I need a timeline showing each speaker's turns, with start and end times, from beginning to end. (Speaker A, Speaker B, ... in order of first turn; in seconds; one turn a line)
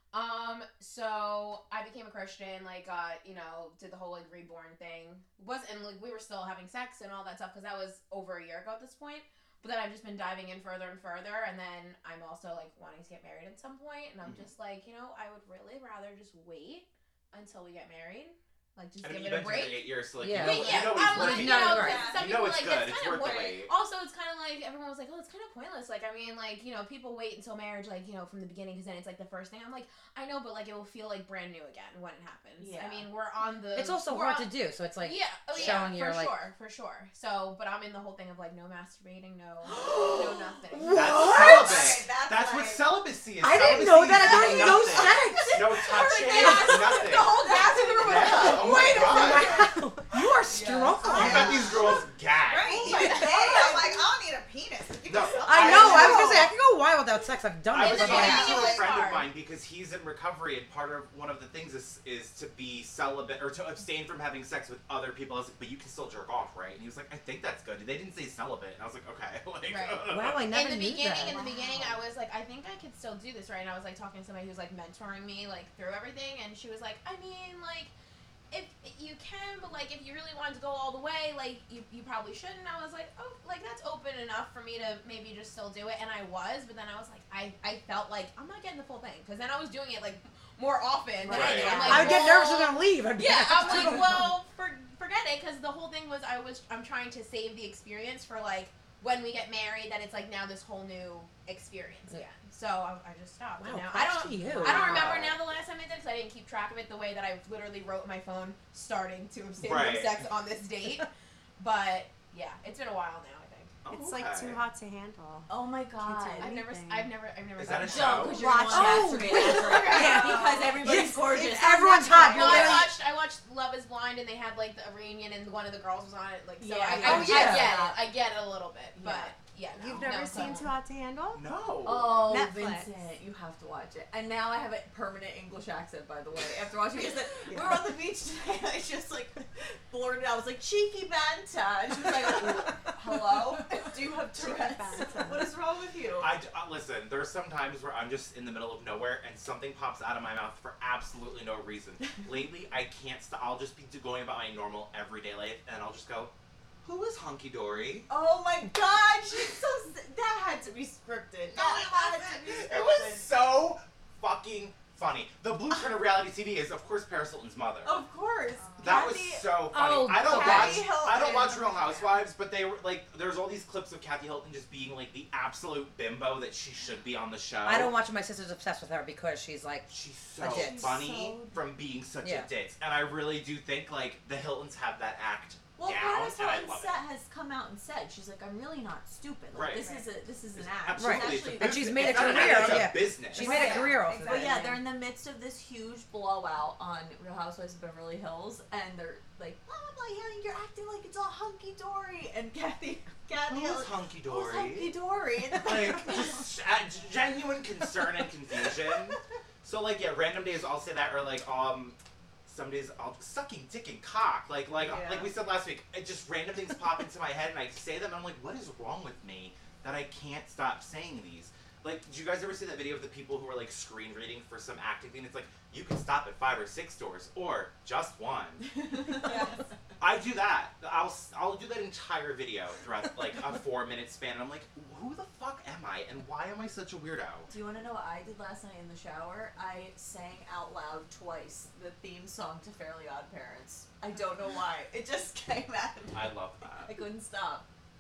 Speaker A: 0.1-41.4
Speaker B: 19.0-23.7
Speaker C: 20.2-22.1
Speaker D: 21.2-22.4
Speaker D: 32.6-33.1
Speaker C: 33.8-36.5
Speaker D: 35.6-35.9
Speaker D: 39.8-40.3
Speaker C: 40.7-41.8
Speaker B: 40.9-49.6
Speaker E: 41.2-43.0
Speaker C: 43.4-45.7
Speaker D: 44.2-49.7
Speaker C: 46.4-46.9
Speaker E: 47.1-49.7
Speaker C: 48.9-51.8
Speaker D: 50.5-51.8
Speaker E: 50.5-56.5
Speaker B: 51.0-52.9
Speaker D: 52.6-54.0
Speaker B: 55.1-56.5
Speaker C: 55.5-58.6
Speaker D: 55.8-56.3
Speaker B: 57.7-70.5
Speaker A: 57.8-59.3
Speaker E: 58.0-58.9
Speaker A: 69.7-77.9
Speaker C: 70.1-71.4
Speaker D: 71.2-71.9
Speaker A: 78.5-113.8
Speaker D: 91.3-92.4
Speaker B: 91.3-92.1
Speaker F: 91.5-92.0
Speaker C: 91.8-94.3
Speaker C: 103.6-105.3
Speaker B: 104.6-105.4
Speaker B: 109.6-110.2
Speaker B: 113.8-114.6
Speaker F: 113.9-117.1
Speaker D: 115.5-116.5
Speaker A: 116.4-120.2
Speaker B: 117.6-118.5
Speaker D: 117.8-122.8
Speaker F: 118.2-119.9
Speaker C: 118.7-122.9
Speaker F: 122.0-122.6
Speaker A: 122.3-130.7
Speaker D: 126.6-128.0
Speaker F: 127.0-127.7
Speaker C: 127.0-127.7
Speaker D: 128.9-129.3
Speaker F: 129.8-131.5
Speaker B: 131.3-132.4
Speaker D: 131.8-146.3
Speaker F: 132.3-132.9
Speaker F: 137.5-137.9
Speaker F: 144.3-145.5
Speaker B: 146.2-156.3
Speaker B: 156.8-158.1
Speaker D: 158.1-163.3
Speaker B: 161.6-168.0
Speaker D: 167.8-169.7
Speaker E: 168.6-169.1
Speaker B: 168.8-177.9
Speaker C: 169.7-170.9
Speaker D: 170.2-172.2
Speaker C: 177.6-181.0
Speaker B: 179.9-187.0
Speaker D: 180.4-181.6
Speaker C: 182.2-182.5
Speaker D: 185.8-206.5
Speaker B: 189.5-189.9
Speaker E: 189.8-190.1
Speaker B: 190.5-193.8
Speaker C: 191.0-194.8
Speaker E: 193.3-194.8
Speaker B: 203.5-205.0
Speaker B: 205.5-228.7
Speaker E: 214.8-215.3
Speaker D: 214.9-215.2
Speaker D: 228.8-229.5
Speaker B: 230.0-237.5
Speaker D: 237.5-246.3
Speaker B: 246.1-247.0
Speaker D: 246.8-247.7